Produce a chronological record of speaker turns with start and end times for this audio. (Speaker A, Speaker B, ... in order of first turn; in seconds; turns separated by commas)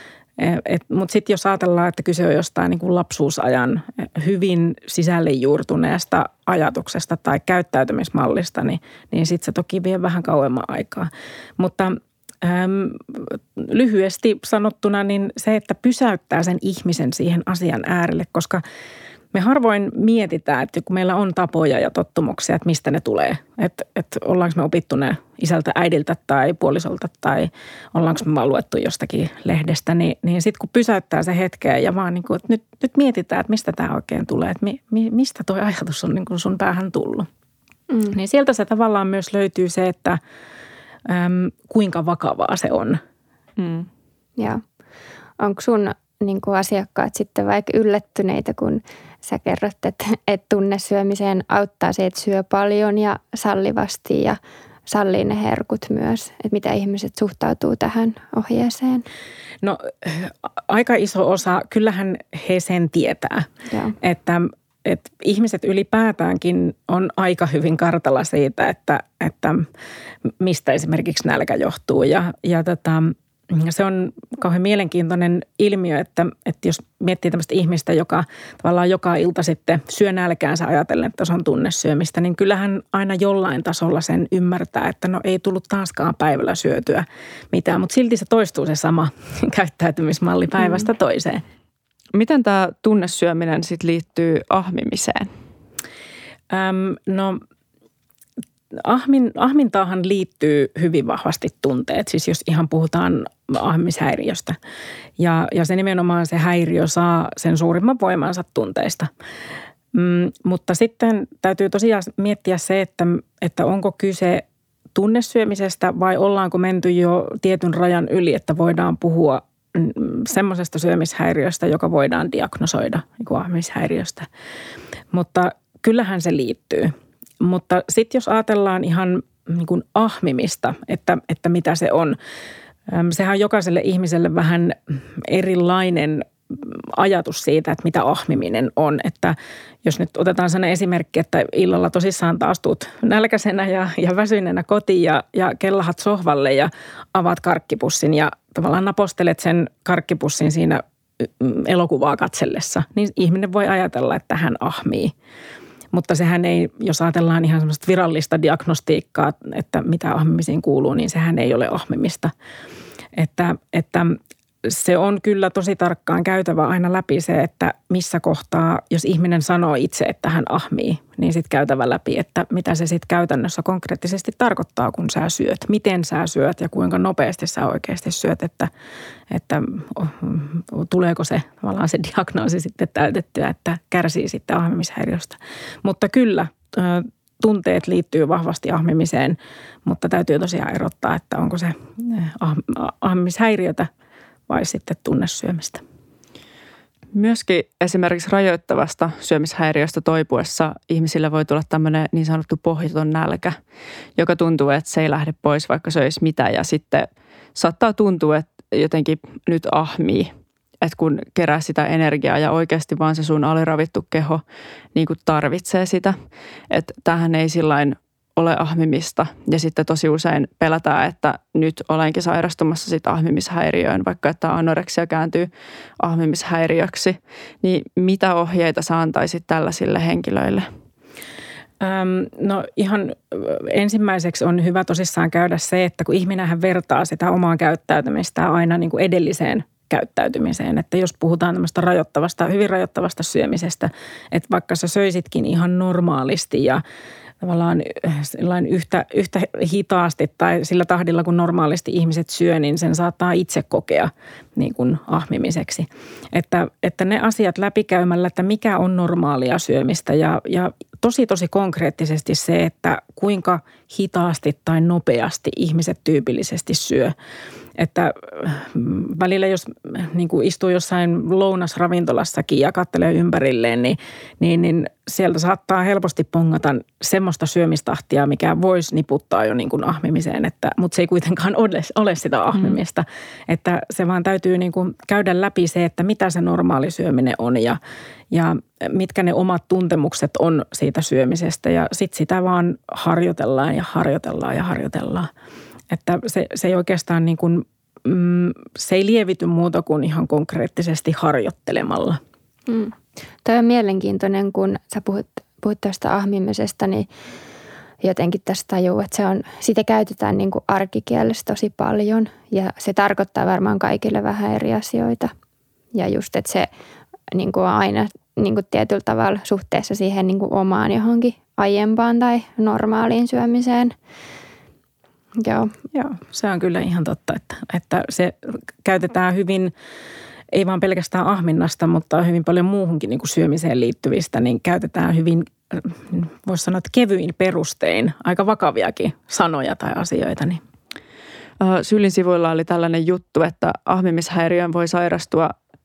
Speaker A: 0.4-18.6, Speaker A: 19.3-37.3, Speaker B: 37.9-38.1, Speaker A: 38.1-40.2, Speaker A: 41.0-43.0, Speaker C: 43.6-43.9, Speaker B: 45.4-59.0, Speaker A: 59.6-63.5, Speaker B: 63.7-63.9, Speaker A: 64.0-69.7, Speaker A: 70.4-91.4, Speaker C: 92.1-95.3, Speaker A: 96.5-97.4, Speaker A: 98.7-104.6, Speaker A: 105.2-109.1, Speaker A: 109.9-124.3, Speaker A: 125.1-132.2, Speaker A: 132.9-155.1, Speaker A: 155.9-162.3, Speaker A: 163.1-178.7, Speaker A: 179.3-193.9, Speaker A: 194.5-195.8, Speaker C: 197.1-203.6, Speaker C: 204.2-214.4, Speaker C: 214.9-216.2, Speaker C: 216.7-230.7, Speaker A: 231.8-246.8, Speaker A: 247.4-267.1, Speaker A: 267.8-287.8, Speaker A: 288.3-295.3, Speaker A: 295.9-302.2, Speaker B: 302.7-307.1, Speaker B: 308.0-315.3, Speaker B: 315.9-316.7, Speaker B: 317.3-323.9, Speaker B: 325.4-325.7, Speaker A: 325.9-329.7, Speaker A: 330.5-340.6, Speaker C: 341.6-345.5